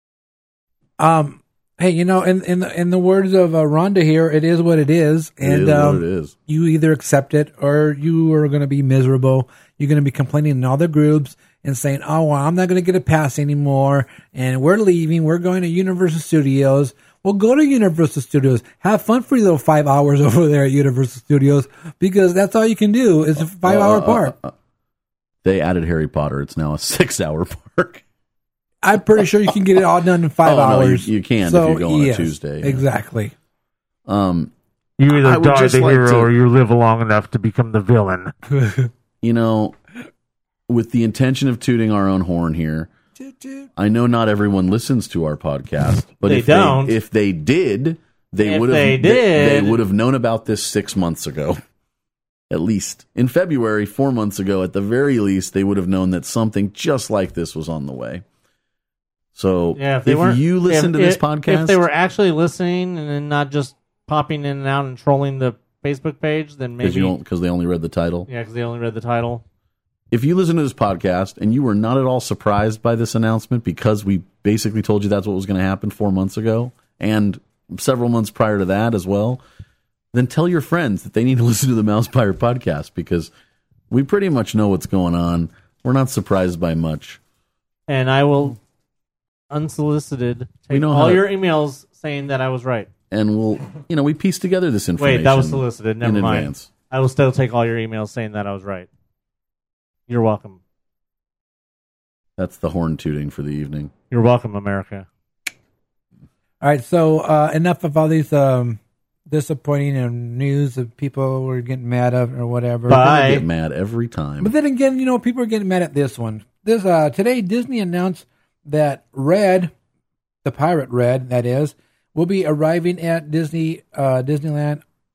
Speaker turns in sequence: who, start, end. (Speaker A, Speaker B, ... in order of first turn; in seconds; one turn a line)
Speaker A: 1.0-24.4
Speaker B: 5.4-6.3
Speaker B: 23.4-24.5
Speaker B: 25.4-28.0
Speaker A: 28.8-33.3
Speaker B: 30.4-32.8
Speaker B: 34.1-34.5
Speaker C: 35.0-38.3
Speaker B: 35.1-36.3
Speaker A: 38.5-38.9
Speaker B: 39.2-39.8
Speaker B: 40.7-42.9
Speaker A: 43.2-43.7
Speaker B: 43.8-51.6
Speaker C: 46.2-47.0
Speaker C: 48.4-49.8
Speaker B: 52.5-58.2
Speaker B: 59.4-61.9
Speaker C: 59.8-67.2
Speaker B: 66.8-68.3
Speaker C: 68.3-69.4
Speaker B: 70.1-79.4
Speaker B: 80.1-83.3
Speaker B: 83.9-87.2
Speaker C: 87.9-88.6
Speaker C: 89.5-92.9
Speaker B: 90.7-91.3
Speaker B: 93.1-96.7
Speaker C: 95.0-98.9
Speaker C: 100.1-100.6
Speaker B: 102.4-103.9
Speaker C: 104.1-105.1
Speaker A: 106.6-113.2
Speaker C: 112.9-113.4
Speaker B: 112.9-114.5
Speaker A: 114.4-119.7
Speaker A: 120.5-124.8